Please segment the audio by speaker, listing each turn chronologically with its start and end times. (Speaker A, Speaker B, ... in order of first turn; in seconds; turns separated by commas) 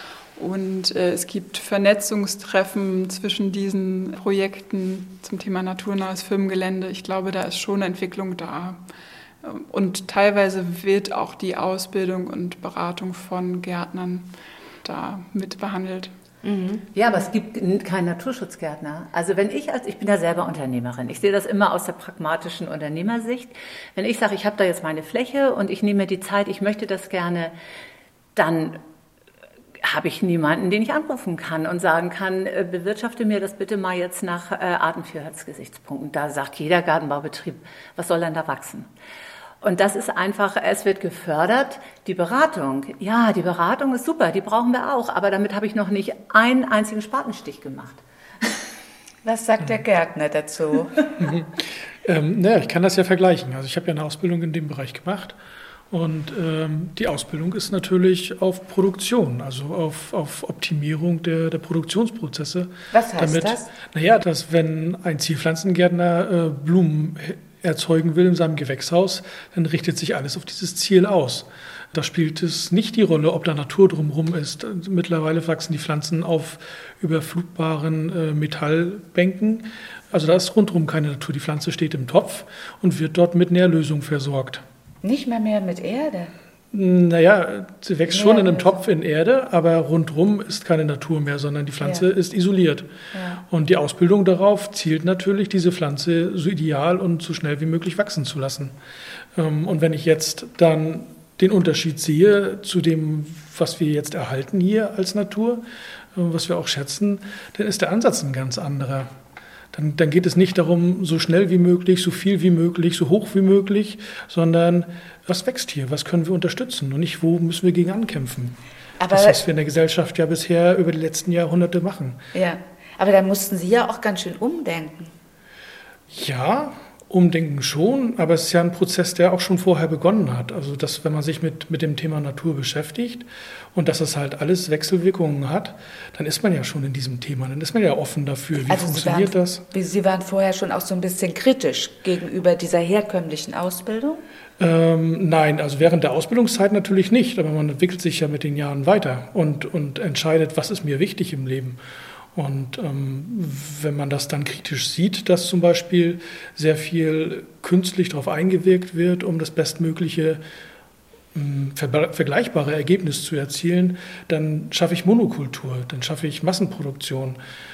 Speaker A: 0.4-8.8, Speaker A: 9.4-14.3, Speaker A: 14.8-16.1, Speaker B: 16.4-16.8, Speaker C: 16.9-27.5, Speaker C: 28.3-28.8, Speaker C: 29.8-38.9, Speaker C: 39.6-48.0, Speaker B: 49.2-51.0, Speaker D: 51.2-55.4, Speaker D: 55.9-84.6, Speaker B: 62.9-63.7, Speaker B: 85.0-86.3, Speaker D: 86.7-92.9, Speaker B: 88.1-88.8, Speaker B: 91.8-92.0, Speaker B: 93.1-93.4, Speaker D: 93.5-98.7, Speaker D: 99.3-109.1, Speaker D: 109.7-122.2, Speaker B: 119.0-119.4, Speaker B: 122.3-125.1, Speaker D: 126.1-139.6, Speaker B: 138.7-144.2, Speaker D: 144.6-151.8, Speaker D: 152.3-160.4, Speaker D: 161.3-167.4